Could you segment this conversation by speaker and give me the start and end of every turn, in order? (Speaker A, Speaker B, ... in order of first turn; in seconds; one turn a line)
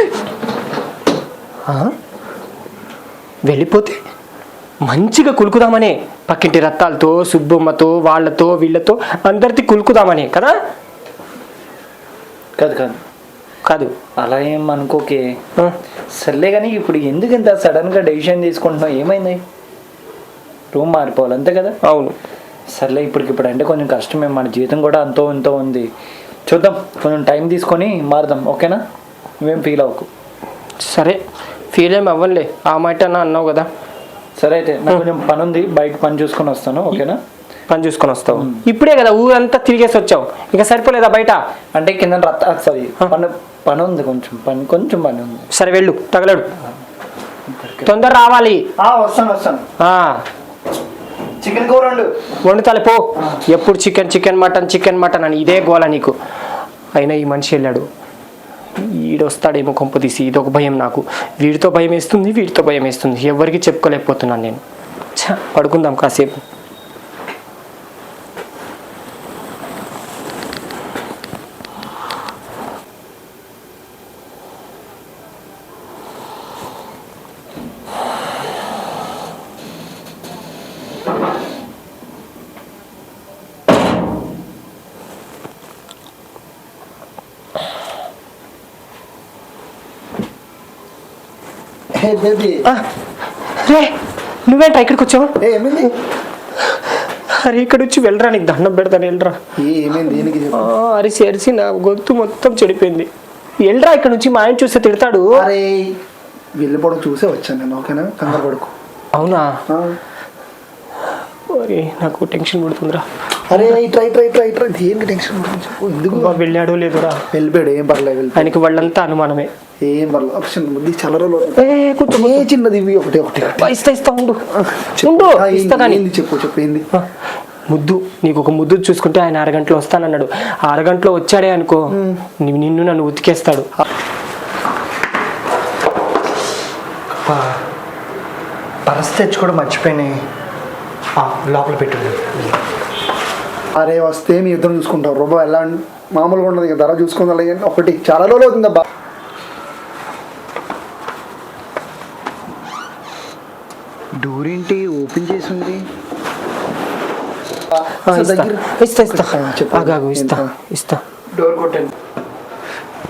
Speaker A: 1.7-1.9
Speaker A: 3.5-4.0
Speaker A: 4.8-10.5
Speaker B: 12.6-13.0
Speaker A: 13.7-13.9
Speaker B: 14.2-15.2
Speaker B: 16.2-19.4
Speaker B: 20.7-21.7
Speaker A: 21.8-22.1
Speaker B: 22.8-25.9
Speaker B: 26.5-28.8
Speaker B: 29.4-30.1
Speaker A: 30.8-31.2
Speaker A: 31.7-33.7
Speaker B: 34.4-37.2
Speaker A: 37.7-41.4
Speaker B: 38.3-38.6
Speaker B: 41.7-45.5
Speaker A: 45.5-46.5
Speaker B: 47.5-47.9
Speaker A: 47.9-48.6
Speaker B: 48.8-49.6
Speaker A: 49.8-50.2
Speaker B: 51.4-52.1
Speaker A: 52.4-56.1
Speaker A: 56.9-57.9
Speaker A: 58.8-64.6
Speaker A: 65.2-66.4
Speaker C: 91.9-92.7
Speaker A: 93.6-93.9
Speaker A: 94.5-95.3
Speaker C: 95.4-95.9
Speaker A: 97.3-99.4
Speaker C: 99.6-100.7
Speaker A: 100.1-103.1
Speaker A: 103.6-105.5
Speaker C: 105.3-105.9
Speaker C: 106.6-108.7
Speaker A: 109.1-109.6
Speaker C: 109.7-110.0
Speaker A: 111.5-113.6
Speaker C: 113.5-116.4
Speaker A: 116.1-117.2
Speaker C: 117.3-118.9
Speaker A: 118.3-119.5
Speaker C: 119.8-123.7
Speaker A: 121.6-122.5
Speaker A: 123.6-124.4
Speaker C: 124.5-126.8
Speaker A: 125.0-126.0
Speaker A: 127.7-133.7
Speaker C: 131.9-132.2
Speaker B: 137.2-137.6
Speaker B: 138.8-140.2
Speaker B: 141.2-142.5
Speaker C: 143.7-148.8
Speaker B: 154.2-155.8
Speaker A: 158.1-161.0
Speaker C: 158.1-160.5
Speaker B: 161.3-161.9